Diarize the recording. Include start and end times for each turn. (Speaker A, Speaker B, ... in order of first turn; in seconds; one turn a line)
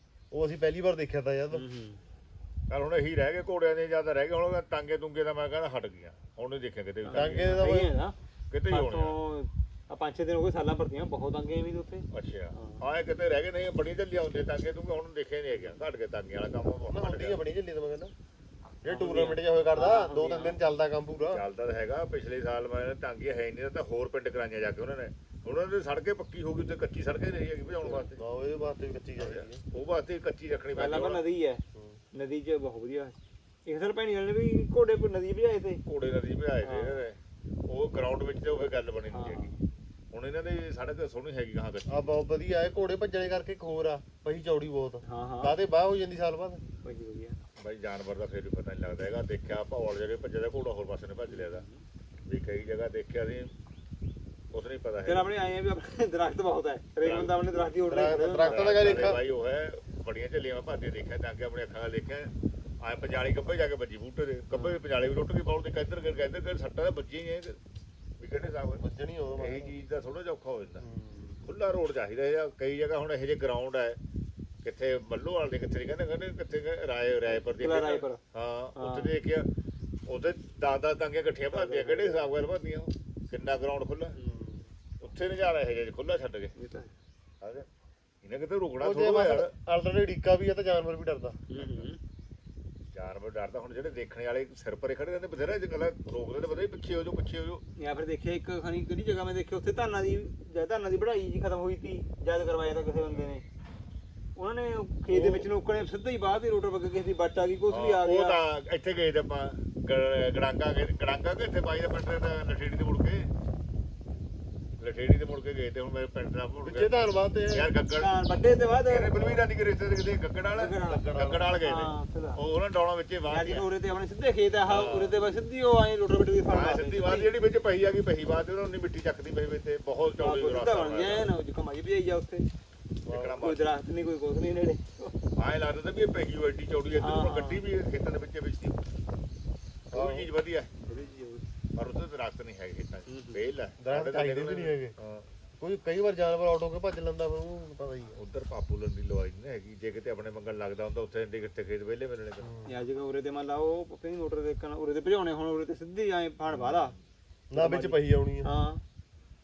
Speaker A: 0.3-1.6
Speaker B: 1.5-2.0
Speaker C: 2.7-7.6
Speaker B: 7.0-8.2
Speaker A: 7.1-7.9
Speaker C: 8.5-9.1
Speaker B: 8.7-12.8
Speaker C: 12.1-17.4
Speaker B: 15.5-15.8
Speaker A: 16.9-18.1
Speaker A: 18.8-21.4
Speaker B: 18.9-20.6
Speaker C: 21.2-28.2
Speaker A: 27.8-29.6
Speaker C: 29.2-31.2
Speaker B: 30.7-35.8
Speaker C: 35.8-39.5
Speaker B: 36.6-37.0
Speaker B: 39.1-39.6
Speaker C: 40.1-42.1
Speaker A: 41.9-46.6
Speaker B: 45.0-45.5
Speaker B: 46.6-47.4
Speaker C: 47.6-51.6
Speaker B: 51.3-51.8
Speaker C: 52.3-53.5
Speaker C: 54.5-55.3
Speaker B: 55.0-59.0
Speaker C: 57.0-57.3
Speaker A: 57.9-59.2
Speaker C: 58.4-67.6
Speaker B: 64.5-64.8
Speaker C: 68.2-68.8
Speaker A: 68.8-69.7
Speaker C: 69.3-70.8
Speaker A: 70.8-71.4
Speaker C: 71.4-74.0
Speaker C: 74.6-79.5
Speaker B: 77.3-78.2
Speaker B: 78.8-79.1
Speaker C: 80.1-84.2
Speaker B: 81.5-82.3
Speaker B: 84.2-84.6
Speaker C: 85.0-86.5
Speaker B: 86.5-86.9
Speaker C: 87.4-87.7
Speaker C: 88.2-89.5
Speaker A: 88.8-91.4
Speaker B: 91.5-92.0
Speaker C: 91.5-91.9
Speaker C: 92.9-97.6
Speaker B: 97.8-103.4
Speaker B: 104.3-108.4
Speaker C: 105.1-105.5
Speaker C: 107.7-113.3
Speaker C: 114.8-118.1
Speaker A: 116.6-117.7
Speaker B: 118.0-119.4
Speaker C: 118.9-123.7
Speaker B: 120.5-122.4
Speaker A: 121.1-121.4
Speaker B: 123.3-127.3
Speaker C: 124.7-125.2
Speaker C: 126.5-131.3
Speaker B: 130.2-132.4
Speaker A: 133.1-133.4
Speaker C: 133.1-133.6
Speaker B: 133.4-135.2
Speaker C: 135.4-138.8
Speaker B: 137.0-137.6
Speaker C: 139.9-140.7
Speaker A: 139.9-140.3
Speaker B: 140.8-141.4
Speaker C: 141.7-145.2
Speaker B: 143.1-143.5
Speaker A: 143.8-144.9
Speaker A: 145.6-148.2
Speaker C: 148.1-152.5
Speaker A: 152.4-152.7
Speaker B: 152.7-156.9
Speaker C: 156.5-156.9
Speaker A: 157.5-158.5
Speaker B: 157.5-158.8